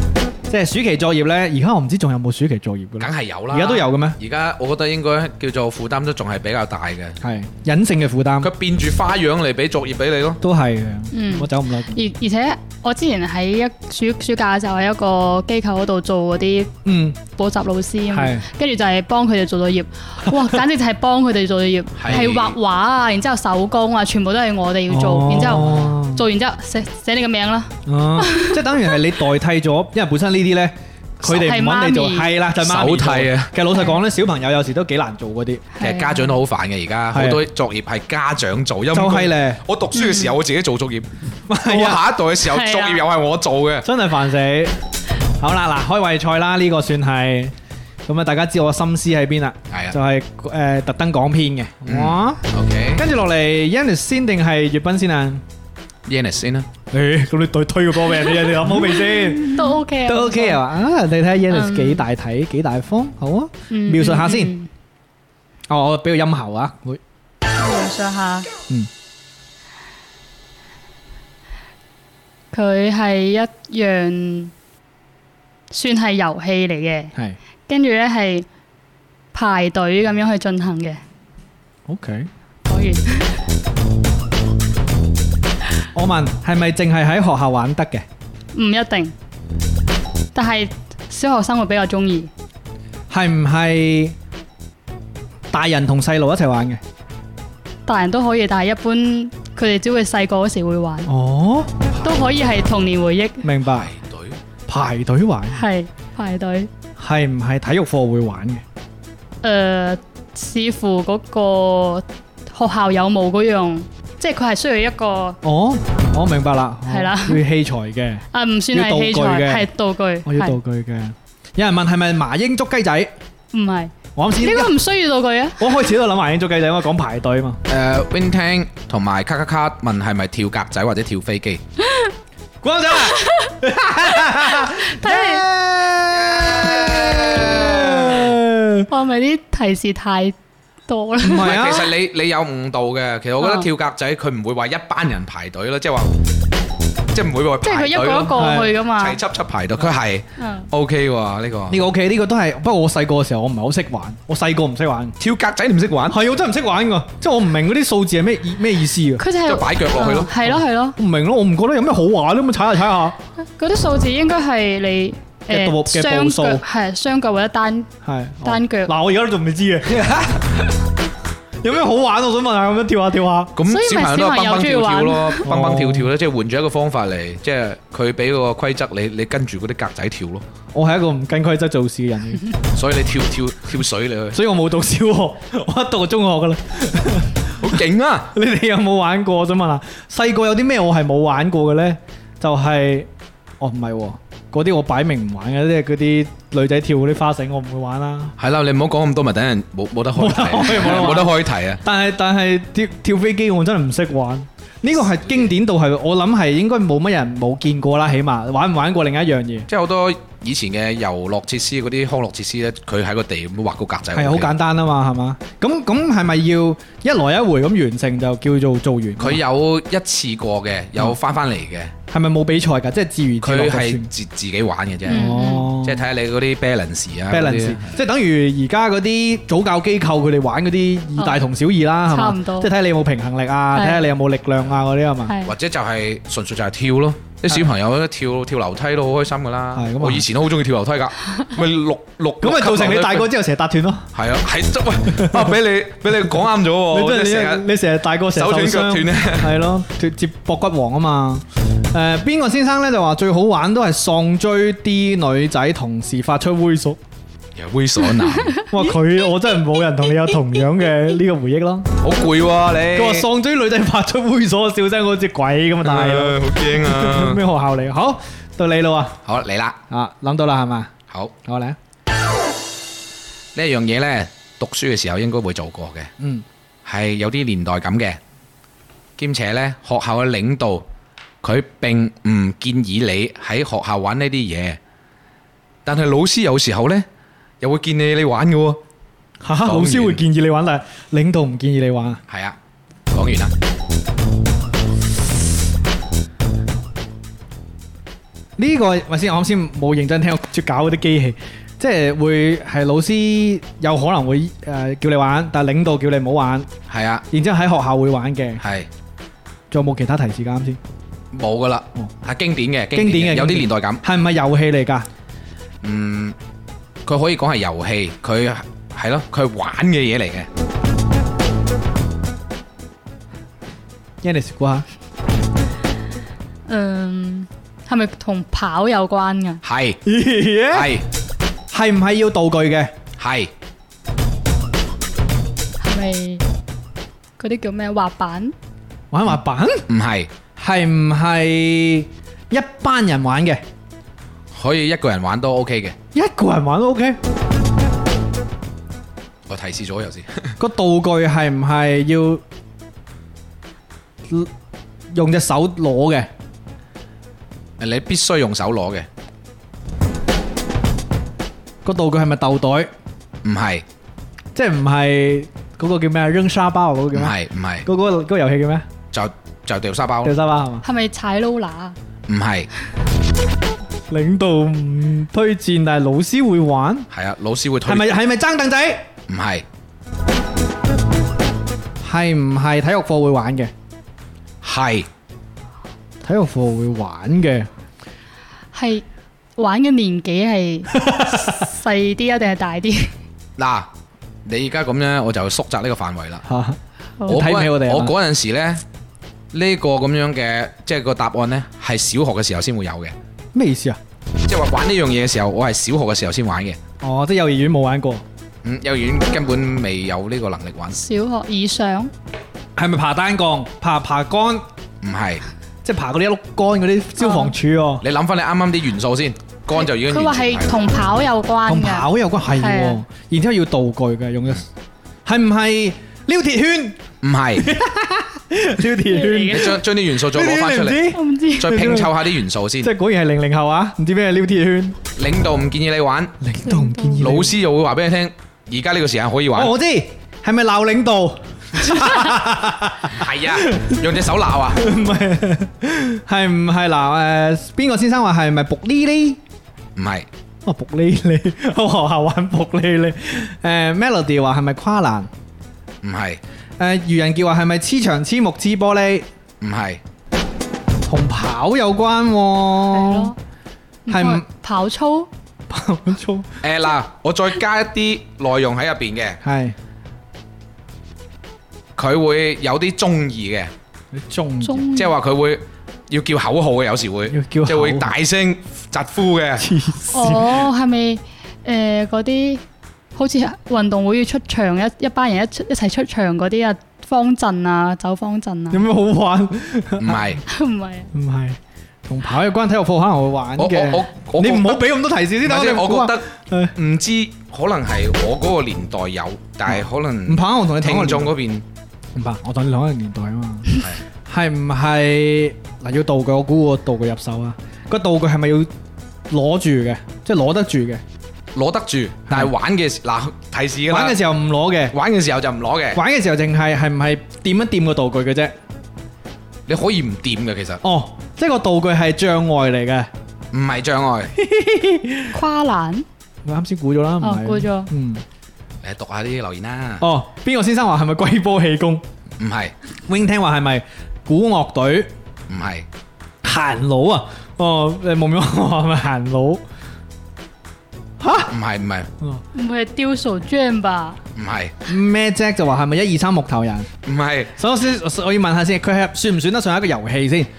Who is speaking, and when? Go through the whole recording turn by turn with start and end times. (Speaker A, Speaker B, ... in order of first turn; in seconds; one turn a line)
Speaker A: 0.5-4.2
Speaker B: 3.0-7.2
Speaker A: 7.2-8.5
Speaker B: 8.4-10.4
Speaker A: 10.4-12.0
Speaker C: 11.1-16.7
Speaker A: 16.8-17.2
Speaker C: 17.3-28.6
Speaker A: 18.1-18.4
Speaker A: 20.2-20.6
Speaker B: 22.0-22.6
Speaker A: 24.9-26.2
Speaker A: 27.9-35.7
Speaker C: 31.3-32.3
Speaker B: 32.6-33.5
Speaker C: 35.8-36.3
Speaker B: 35.8-41.1
Speaker A: 37.1-37.4
Speaker A: 38.9-39.6
Speaker C: 39.9-40.3
Speaker A: 41.5-42.0
Speaker B: 41.6-43.9
Speaker C: 42.5-43.0
Speaker A: 43.8-44.7
Speaker A: 45.4-47.5
Speaker A: 48.0-52.4
Speaker B: 49.7-50.0
Speaker B: 51.9-53.0
Speaker A: 53.0-55.4
Speaker B: 56.1-56.7
Speaker A: 56.9-64.5
Speaker C: 59.4-60.6
Speaker C: 61.5-62.0
Speaker C: 63.7-64.7
Speaker A: 65.7-67.0
Speaker C: 67.5-68.5
Speaker C: 72.5-74.5
Speaker C: 75.7-77.1
Speaker C: 77.7-78.5
Speaker C: 79.3-81.0
Speaker A: 81.9-82.3
Speaker C: 82.7-83.4
Speaker A: 85.9-88.0
Speaker C: 88.5-89.1
Speaker C: 90.3-92.3
Speaker A: 93.1-94.2
Speaker A: 95.5-96.8
Speaker C: 97.8-101.1
Speaker A: 101.1-101.7
Speaker C: 102.0-103.5
Speaker A: 103.4-103.9
Speaker B: 103.7-104.4
Speaker A: 104.7-105.6
Speaker C: 105.5-106.7
Speaker A: 107.0-108.6
Speaker C: 109.4-115.4
Speaker A: 115.4-119.7
Speaker C: 116.9-117.4
Speaker C: 118.3-120.6
Speaker A: 120.2-123.1
Speaker C: 123.5-125.7
Speaker A: 124.2-124.8
Speaker A: 125.6-127.6
Speaker B: 127.7-131.6
Speaker C: 131.8-132.1
Speaker A: 132.6-138.9
Speaker C: 133.0-133.5
Speaker C: 134.2-135.4
Speaker B: 136.3-138.3
Speaker C: 138.9-140.3
Speaker C: 140.9-141.6
Speaker A: 141.2-141.9
Speaker B: 141.4-146.1
Speaker C: 143.4-143.7
Speaker B: 147.1-151.8
Speaker C: 147.6-149.2
Speaker A: 148.3-148.7
Speaker C: 150.4-150.7
Speaker A: 151.7-155.2
Speaker B: 155.2-156.2
Speaker A: 156.1-159.2
Speaker C: 159.2-161.0
Speaker B: 159.4-160.3
Speaker A: 160.4-163.2
Speaker C: 163.4-167.9
Speaker A: 165.5-166.6
Speaker A: 168.0-170.3
Speaker C: 168.4-168.9
Speaker B: 169.9-170.4
Speaker A: 171.6-173.5
Speaker B: 173.6-180.4
Speaker C: 173.6-175.5
Speaker A: 175.4-176.1
Speaker A: 180.7-182.4
Speaker B: 182.7-184.4
Speaker A: 184.3-187.7
Speaker B: 187.5-188.3
Speaker A: 188.3-193.1
Speaker A: 193.6-198.3
Speaker B: 198.4-201.8
Speaker A: 200.1-209.7
Speaker B: 209.7-214.5
Speaker A: 214.1-219.4
Speaker B: 219.2-221.9
Speaker A: 222.1-224.1
Speaker B: 223.4-227.9
Speaker A: 225.1-226.1
Speaker C: 225.1-225.7
Speaker A: 227.3-235.3
Speaker C: 231.2-231.4
Speaker C: 232.1-232.7
Speaker C: 233.7-234.1
Speaker C: 235.3-235.5
Speaker B: 235.4-243.3
Speaker A: 239.7-240.2
Speaker A: 242.4-244.1
Speaker B: 244.1-247.6
Speaker A: 245.1-245.5
Speaker A: 246.9-257.0
Speaker B: 248.3-249.5
Speaker B: 257.5-258.6
Speaker A: 258.7-261.9
Speaker B: 262.0-263.3
Speaker A: 262.9-269.2
Speaker B: 265.8-267.4
Speaker B: 269.2-269.8
Speaker A: 269.9-270.9
Speaker A: 271.4-271.8
Speaker B: 273.5-276.1
Speaker A: 276.2-276.4
Speaker B: 276.9-278.2
Speaker B: 279.2-280.8
Speaker B: 281.4-284.8
Speaker B: 285.8-287.1
Speaker B: 287.6-288.8
Speaker A: 289.4-292.2
Speaker B: 289.6-290.2
Speaker B: 292.3-292.6
Speaker B: 293.1-293.5
Speaker A: 298.6-306.7
Speaker B: 306.9-307.2
Speaker A: 307.3-308.6
Speaker B: 308.6-308.9
Speaker A: 309.7-310.8
Speaker B: 311.3-314.0
Speaker A: 312.9-315.1
Speaker B: 315.8-316.4
Speaker B: 317.1-320.5
Speaker A: 324.2-324.9
Speaker C: 326.7-329.6
Speaker B: 329.6-330.0
Speaker A: 330.1-330.9
Speaker B: 330.7-331.0
Speaker A: 331.7-332.9
Speaker B: 333.2-333.5
Speaker C: 335.8-336.4
Speaker C: 337.4-338.5
Speaker A: 339.1-339.8
Speaker B: 339.9-340.3
Speaker A: 340.6-343.6
Speaker B: 344.5-345.9
Speaker A: 346.1-347.2
Speaker B: 349.5-350.6
Speaker A: 350.6-352.4
Speaker A: 355.1-356.3
Speaker B: 357.8-359.1
Speaker A: 361.8-362.9
Speaker B: 363.4-363.8
Speaker A: 364.5-368.9
Speaker B: 367.1-367.9
Speaker B: 369.1-370.3
Speaker A: 370.2-370.8
Speaker C: 370.8-371.9
Speaker B: 372.3-372.7
Speaker A: 374.1-377.1
Speaker B: 377.1-378.1
Speaker A: 377.8-379.1
Speaker B: 379.3-379.6
Speaker A: 382.0-383.7
Speaker B: 384.6-385.1
Speaker A: 386.2-387.7
Speaker C: 388.7-389.0
Speaker C: 389.6-393.1
Speaker B: 393.6-393.9
Speaker B: 394.4-396.4
Speaker A: 396.4-398.1
Speaker B: 397.3-398.8
Speaker B: 399.5-403.1
Speaker A: 403.5-404.0
Speaker B: 404.4-406.8
Speaker A: 407.0-408.2
Speaker B: 408.6-411.0
Speaker C: 411.0-412.1
Speaker A: 412.8-414.6
Speaker B: 415.0-415.4
Speaker A: 415.8-418.0
Speaker C: 417.2-417.5
Speaker B: 418.0-420.7
Speaker C: 419.8-423.0
Speaker A: 421.6-424.6
Speaker A: 425.2-427.0
Speaker B: 427.2-427.7
Speaker A: 427.6-432.1
Speaker C: 429.1-429.7
Speaker B: 429.5-432.9
Speaker C: 431.1-431.7
Speaker A: 432.8-435.0
Speaker B: 435.1-436.4
Speaker A: 436.4-437.6
Speaker C: 436.7-437.2
Speaker B: 437.2-439.7
Speaker A: 439.5-444.0
Speaker B: 443.1-444.8
Speaker A: 444.7-449.4
Speaker B: 449.9-450.3
Speaker A: 450.6-455.3
Speaker B: 456.0-456.4
Speaker A: 456.8-459.3
Speaker B: 459.6-460.0
Speaker A: 461.0-463.3
Speaker C: 462.9-463.4
Speaker C: 464.1-465.3
Speaker A: 464.1-464.4
Speaker A: 465.7-466.5
Speaker B: 466.6-469.4
Speaker A: 469.4-469.7
Speaker B: 472.0-473.7
Speaker A: 474.1-474.9
Speaker C: 474.6-475.1
Speaker B: 474.9-479.7
Speaker A: 477.3-478.1
Speaker A: 479.6-480.6
Speaker C: 480.1-482.6
Speaker C: 483.1-488.8
Speaker A: 488.7-490.4
Speaker B: 490.0-490.4
Speaker C: 490.5-491.1
Speaker A: 491.1-496.7
Speaker B: 493.6-494.9
Speaker B: 495.4-501.6
Speaker A: 499.7-501.3
Speaker A: 502.1-508.7
Speaker B: 503.7-504.0
Speaker A: 509.3-511.0
Speaker B: 511.5-514.2
Speaker A: 513.9-514.9
Speaker B: 514.9-516.0
Speaker A: 515.9-518.5
Speaker B: 519.7-520.8
Speaker A: 520.8-523.1
Speaker B: 523.5-524.3
Speaker A: 524.3-525.4
Speaker C: 525.3-526.0
Speaker A: 526.4-528.2
Speaker C: 527.2-527.9
Speaker B: 528.8-530.0
Speaker A: 530.0-532.0
Speaker B: 532.4-532.7
Speaker A: 533.1-535.1
Speaker B: 535.5-535.9
Speaker A: 536.4-539.6
Speaker A: 541.2-541.5
Speaker B: 541.5-542.1
Speaker C: 542.5-544.2
Speaker B: 544.4-544.7
Speaker A: 544.9-546.9
Speaker B: 547.0-547.5
Speaker A: 547.5-550.5